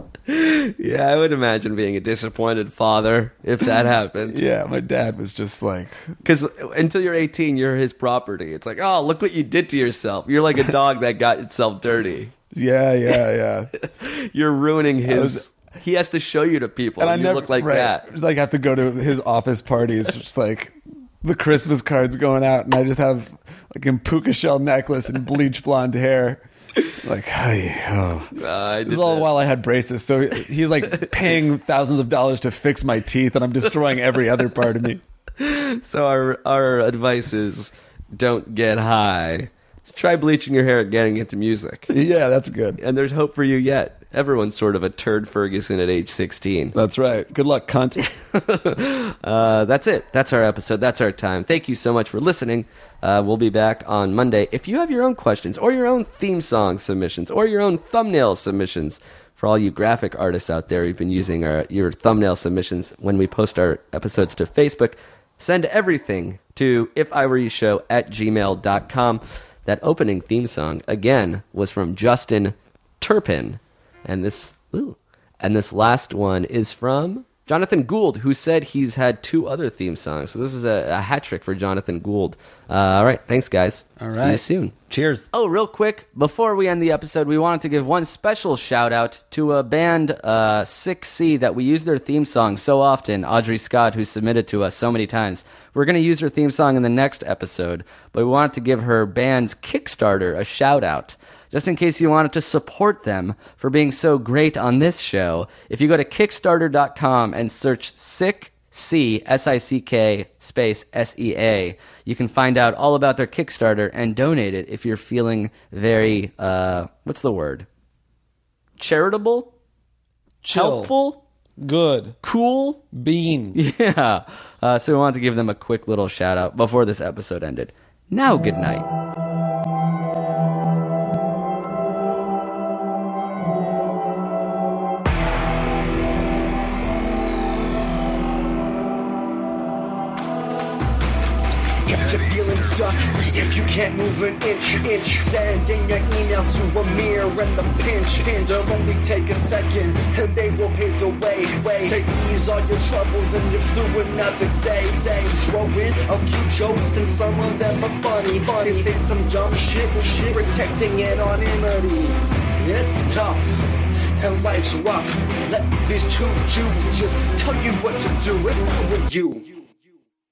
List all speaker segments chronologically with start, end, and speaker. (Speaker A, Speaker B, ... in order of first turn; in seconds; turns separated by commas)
Speaker A: 0.3-4.4, Speaker B: 4.2-6.1, Speaker A: 6.2-12.3, Speaker B: 12.5-13.7, Speaker A: 13.8-18.0, Speaker B: 15.0-15.4, Speaker B: 17.0-26.5, Speaker B: 27.0-28.3, Speaker A: 28.4-29.3, Speaker B: 28.9-35.0, Speaker A: 35.4-41.9, Speaker B: 41.9-42.8, Speaker A: 42.8-46.7, Speaker B: 46.7-48.1, Speaker A: 48.2-84.7, Speaker B: 84.0-85.2, Speaker A: 85.3-117.7, Speaker A: 118.8-119.5, Speaker B: 120.4-120.9, Speaker A: 120.5-121.2, Speaker B: 121.6-122.2, Speaker A: 122.2-122.8, Speaker B: 122.9-123.6, Speaker A: 123.5-128.9, Speaker C: 141.8-163.6, Speaker C: 164.2-169.5